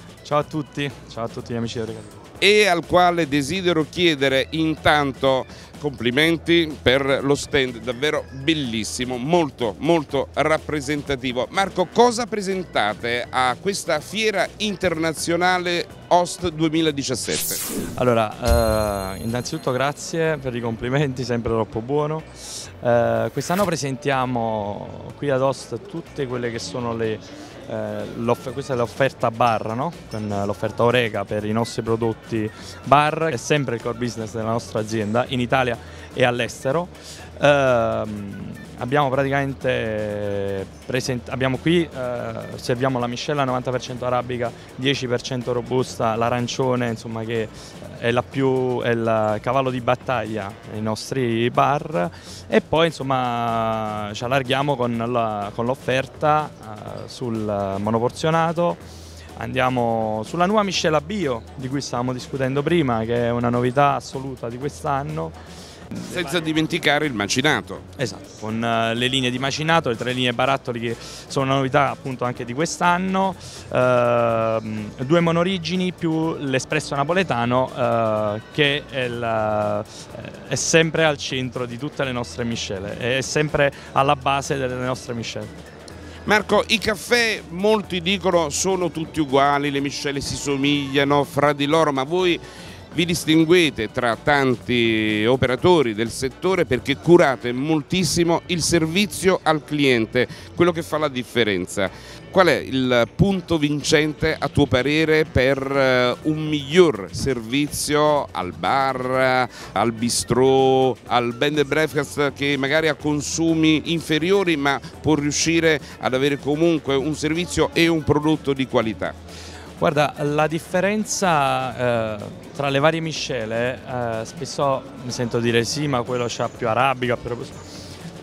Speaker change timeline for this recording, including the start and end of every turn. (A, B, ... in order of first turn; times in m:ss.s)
0:00.2-0:02.2 A
0:02.4-0:17.6 B
0:17.9-0:58.8 A
0:59.4-1:05.3 A
1:06.0-1:07.8 B
1:08.0-1:25.5 A
1:26.2-1:32.4 B
1:32.9-1:59.1 B
1:59.8-2:07.6 A